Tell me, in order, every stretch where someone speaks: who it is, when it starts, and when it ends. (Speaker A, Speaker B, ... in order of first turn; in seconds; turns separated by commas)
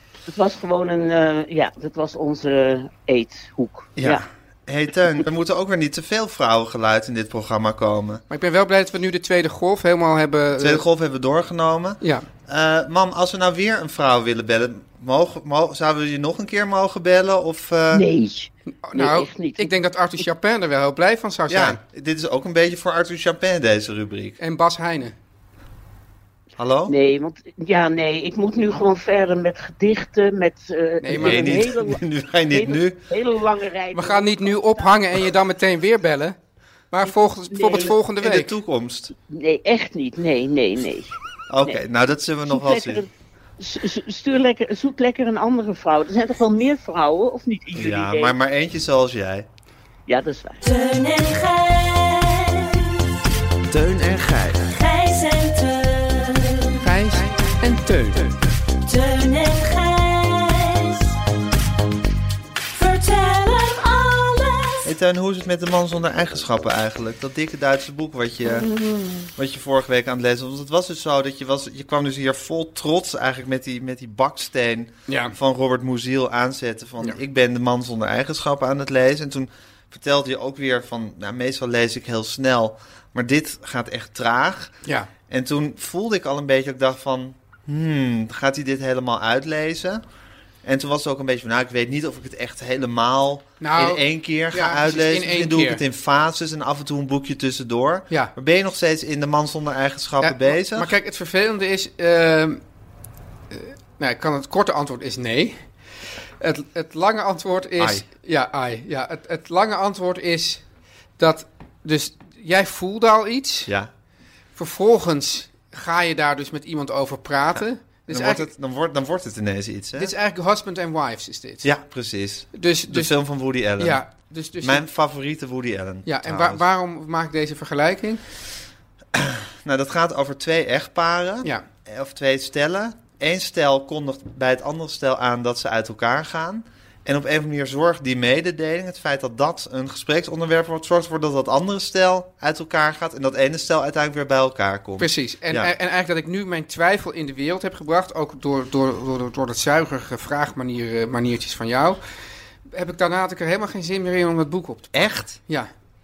Speaker A: 0.3-4.2, Speaker B: 4.0-8.2, Speaker C: 8.3-10.8, Speaker B: 10.6-18.1, Speaker C: 12.0-12.3, Speaker A: 17.9-19.7, Speaker C: 18.8-21.8, Speaker B: 21.5-24.4, Speaker C: 24.4-25.1, Speaker B: 26.6-26.9, Speaker A: 26.9-35.0, Speaker C: 31.0-31.7, Speaker B: 31.1-33.0, Speaker C: 33.9-36.4, Speaker C: 36.9-38.5, Speaker A: 37.1-37.9, Speaker B: 38.2-39.1, Speaker A: 39.3-41.1, Speaker B: 41.5-43.0, Speaker A: 42.5-48.4, Speaker B: 47.7-49.5, Speaker A: 50.1-50.6, Speaker D: 50.6-52.9, Speaker B: 53.7-54.7, Speaker D: 54.9-56.5, Speaker C: 56.8-58.3, Speaker D: 58.9-61.0, Speaker D: 62.8-64.7, Speaker B: 64.8-68.7, Speaker A: 68.8-69.2, Speaker B: 69.3-84.8, Speaker C: 75.1-75.3, Speaker C: 84.8-85.1, Speaker B: 85.3-90.0, Speaker B: 90.6-100.9, Speaker C: 93.6-95.8, Speaker C: 100.2-102.6, Speaker C: 103.5-105.6, Speaker C: 106.4-110.6, Speaker B: 107.8-108.0, Speaker C: 111.2-113.7, Speaker C: 114.6-118.5, Speaker B: 117.6-120.1, Speaker C: 120.0-121.7, Speaker B: 121.6-124.0, Speaker C: 122.5-123.1, Speaker C: 123.8-124.8, Speaker B: 124.6-126.6, Speaker C: 126.0-128.2, Speaker B: 129.1-145.7, Speaker C: 145.0-152.0, Speaker C: 152.7-155.7, Speaker B: 154.9-155.4